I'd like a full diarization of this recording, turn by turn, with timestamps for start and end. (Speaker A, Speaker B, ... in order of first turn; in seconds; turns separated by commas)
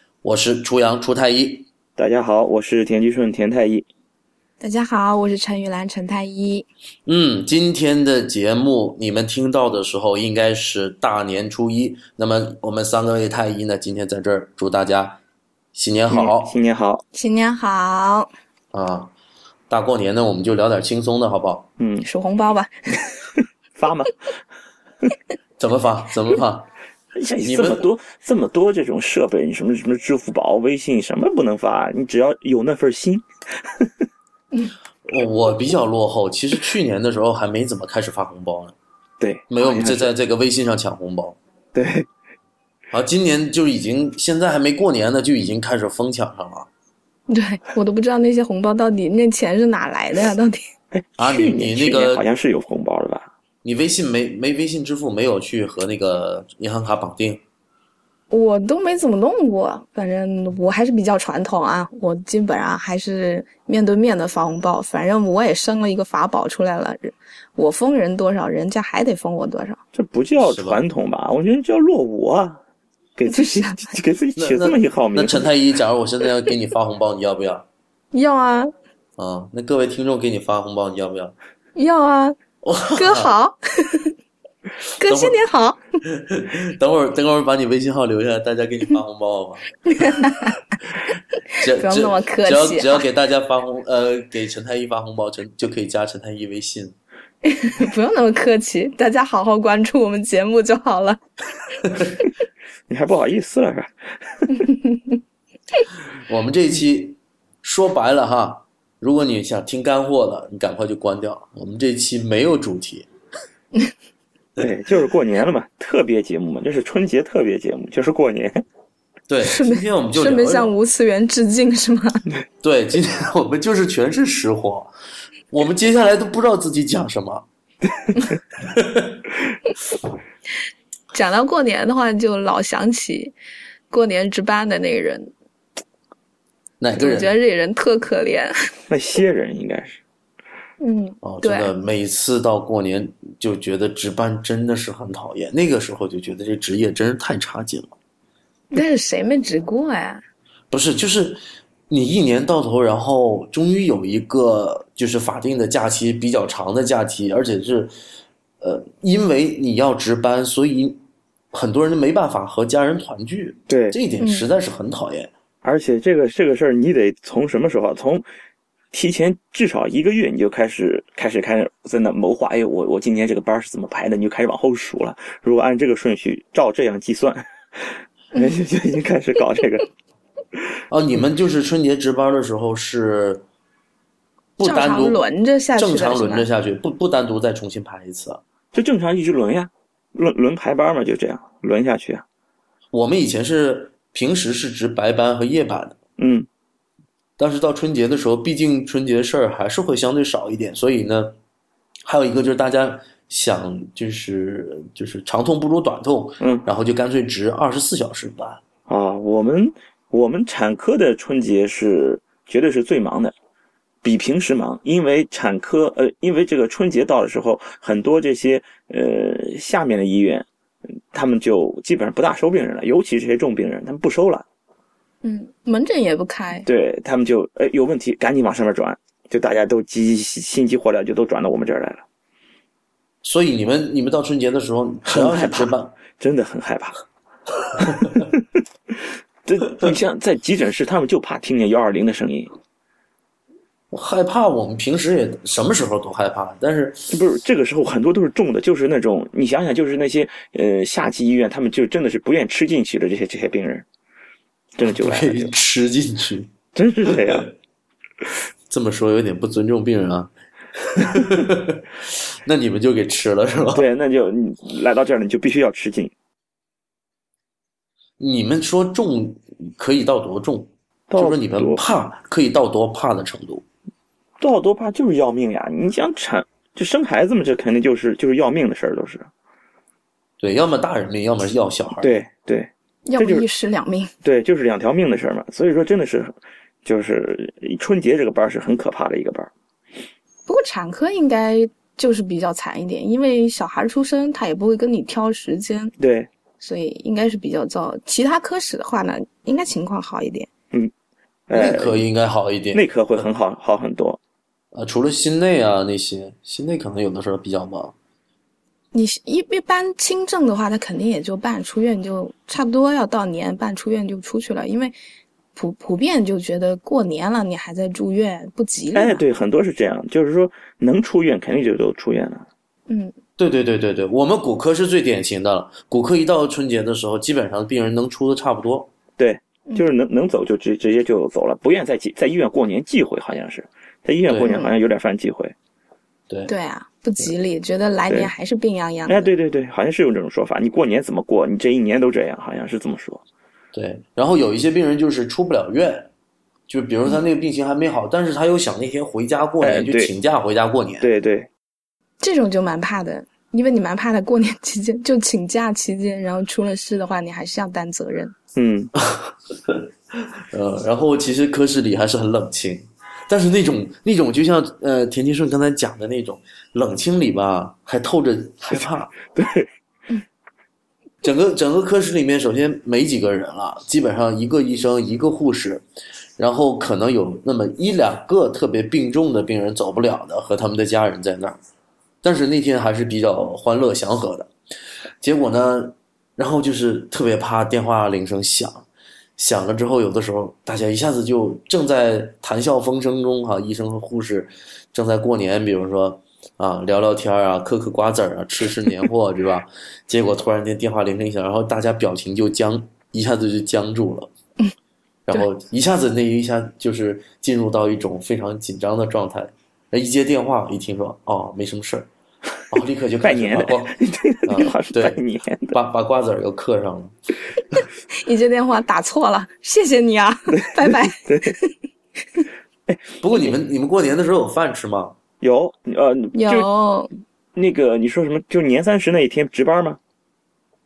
Speaker A: 0.2-1.7, Speaker B: 2.0-3.9, Speaker C: 4.6-6.7, Speaker A: 7.0-15.2, Speaker A: 15.7-16.5, Speaker B: 16.1-17.0, Speaker C: 17.1-18.3, Speaker A: 18.7-19.1, Speaker A: 19.7-21.7, Speaker B: 21.8-22.1, Speaker C: 22.0-23.1, Speaker B: 23.1-24.1, Speaker A: 25.6-26.7, Speaker B: 27.1-33.9, Speaker A: 27.4-27.9, Speaker A: 35.0-38.7, Speaker B: 39.2-40.1, Speaker A: 39.5-41.4, Speaker B: 41.7-42.1, Speaker A: 42.9-46.7, Speaker C: 47.3-50.6, Speaker B: 50.9-53.3, Speaker A: 51.2-52.2, Speaker A: 53.6-57.4, Speaker C: 58.3-69.8, Speaker B: 69.9-72.6, Speaker A: 70.4-70.8, Speaker B: 73.2-75.5, Speaker C: 73.3-73.8, Speaker A: 74.3-77.7, Speaker C: 78.1-78.7, Speaker A: 79.2-81.3, Speaker C: 81.8-82.4, Speaker A: 82.6-83.3, Speaker C: 83.0-84.1, Speaker C: 85.0-85.8, Speaker A: 85.0-85.4, Speaker A: 86.0-90.3, Speaker C: 89.8-90.6, Speaker A: 91.6-96.9, Speaker C: 91.6-93.1, Speaker C: 97.4-101.2, Speaker B: 102.9-104.6, Speaker C: 104.7-105.0, Speaker A: 106.3-113.1, Speaker B: 114.6-118.7, Speaker A: 119.3-120.7, Speaker C: 119.4-122.2, Speaker A: 122.6-124.9, Speaker A: 125.5-127.4, Speaker A: 128.6-129.2, Speaker C: 131.1-133.3, Speaker C: 133.9-135.3, Speaker A: 136.8-137.3, Speaker C: 137.0-138.7, Speaker B: 138.9-140.0, Speaker C: 140.8-141.7, Speaker A: 141.2-147.9, Speaker C: 148.7-150.2, Speaker A: 150.7-157.9, Speaker A: 158.6-161.0, Speaker A: 161.5-165.3, Speaker B: 163.7-164.0, Speaker B: 165.6-168.2, Speaker B: 168.9-179.9, Speaker A: 180.9-183.4, Speaker A: 184.6-185.2, Speaker C: 184.6-186.5, Speaker A: 185.8-188.4, Speaker B: 188.7-192.2, Speaker A: 192.9-196.0, Speaker B: 196.2-196.5, Speaker A: 197.4-201.3, Speaker A: 202.1-208.6, Speaker B: 206.4-206.7, Speaker B: 208.9-213.3, Speaker B: 214.0-220.5, Speaker B: 221.1-224.4, Speaker C: 225.2-226.7, Speaker B: 226.6-232.0, Speaker A: 233.2-235.9, Speaker B: 235.1-236.9, Speaker A: 237.9-238.3, Speaker B: 238.0-242.5, Speaker A: 243.9-247.1, Speaker B: 247.1-253.9, Speaker B: 254.8-255.5, Speaker A: 254.8-256.5, Speaker B: 256.7-257.5, Speaker A: 257.1-257.4, Speaker A: 258.7-263.9, Speaker B: 263.8-266.1, Speaker A: 268.2-273.6, Speaker B: 271.1-271.8, Speaker B: 274.4-279.3, Speaker A: 280.4-282.2, Speaker B: 282.0-283.4, Speaker C: 283.1-284.1, Speaker B: 284.2-289.5, Speaker C: 290.5-295.9, Speaker B: 296.0-296.3, Speaker C: 296.6-300.5, Speaker B: 301.5-302.1, Speaker A: 301.5-303.3, Speaker B: 302.7-304.2, Speaker A: 304.7-307.9, Speaker C: 308.9-314.9, Speaker C: 315.6-319.2, Speaker B: 318.9-322.4, Speaker C: 322.9-323.1, Speaker A: 323.4-328.9, Speaker B: 329.2-335.6, Speaker A: 334.3-334.6, Speaker C: 334.4-334.7, Speaker C: 336.5-339.3, Speaker B: 339.1-343.2, Speaker A: 343.7-346.1, Speaker A: 346.7-351.1, Speaker B: 349.6-350.1, Speaker B: 351.0-351.5, Speaker C: 352.2-358.4, Speaker B: 358.6-358.9, Speaker A: 359.0-359.9, Speaker A: 360.5-369.1, Speaker B: 369.3-369.7, Speaker A: 371.2-375.8, Speaker A: 376.4-381.6, Speaker A: 382.2-384.5, Speaker A: 385.2-388.9, Speaker A: 389.4-404.3, Speaker A: 405.3-412.1, Speaker A: 412.7-415.2, Speaker B: 413.2-415.8, Speaker A: 415.7-417.1, Speaker C: 418.1-421.7, Speaker B: 420.5-421.6, Speaker B: 422.9-423.5, Speaker A: 423.2-425.1, Speaker B: 425.4-426.7, Speaker C: 426.4-427.1, Speaker B: 427.6-430.0